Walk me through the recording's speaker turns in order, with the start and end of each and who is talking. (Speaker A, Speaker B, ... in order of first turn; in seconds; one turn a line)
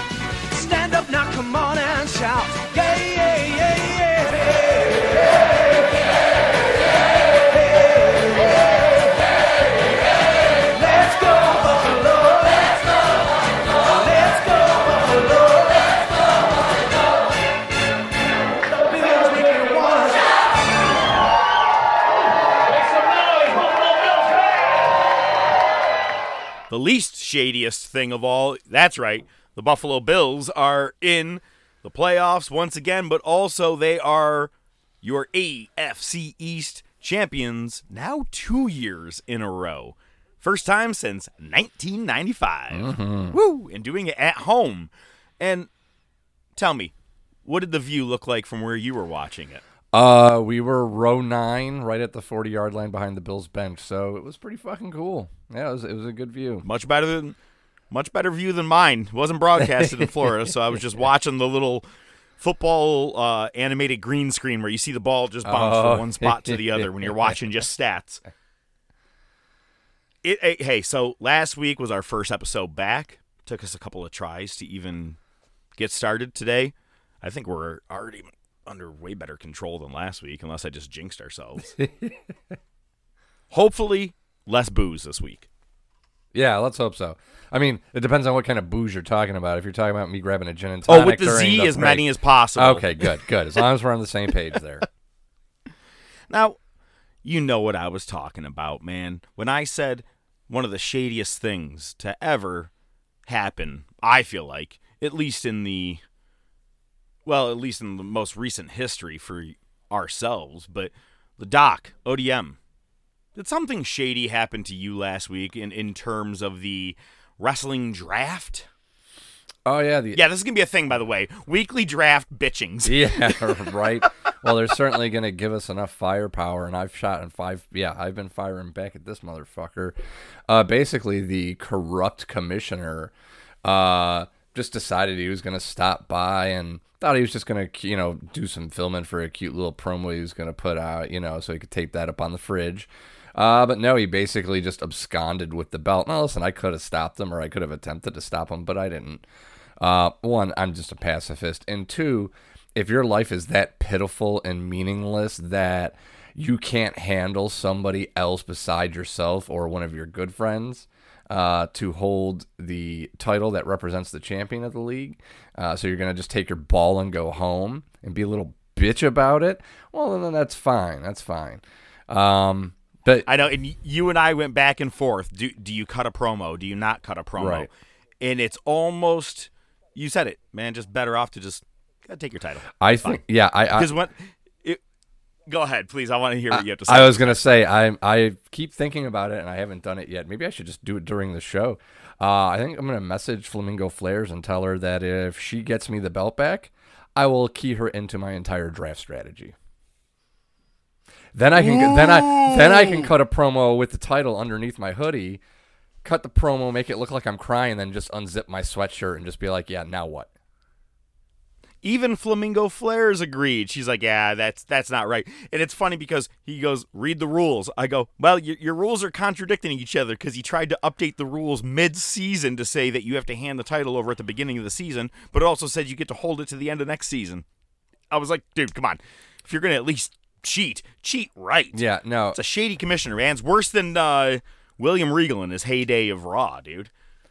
Speaker A: 0.5-5.3
Speaker A: 10.7-12.8
Speaker A: 13.8-15.8
Speaker A: 18.8-20.2
Speaker B: 26.7-34.5
Speaker B: 35.0-45.7
Speaker C: 42.7-43.4
Speaker B: 46.6-46.9
Speaker B: 47.5-49.6
Speaker C: 49.9-56.7
Speaker B: 56.6-57.4
Speaker B: 57.9-61.9
Speaker C: 59.6-60.2
Speaker B: 62.4-68.2
Speaker C: 65.4-67.3
Speaker B: 70.2-75.2
Speaker B: 75.8-81.7
Speaker C: 81.8-82.2
Speaker B: 83.5-85.5
Speaker C: 86.3-94.9
Speaker B: 90.9-93.2
Speaker B: 96.3-96.6
Speaker B: 97.2-102.7
Speaker B: 103.3-106.0
Speaker B: 107.2-112.6
Speaker B: 113.4-118.7
Speaker C: 119.7-120.2
Speaker B: 120.1-123.8
Speaker C: 122.9-130.0
Speaker C: 130.5-133.1
Speaker C: 133.6-149.2
Speaker C: 149.8-173.3
Speaker B: 173.3-183.2
Speaker C: 177.4-177.7
Speaker C: 182.8-183.9
Speaker B: 183.7-184.8
Speaker B: 185.5-187.3
Speaker C: 186.5-199.6
Speaker C: 201.3-205.4
Speaker B: 201.6-203.1
Speaker C: 206.0-210.3
Speaker B: 211.8-227.4
Speaker B: 228.1-236.9
Speaker C: 231.7-232.4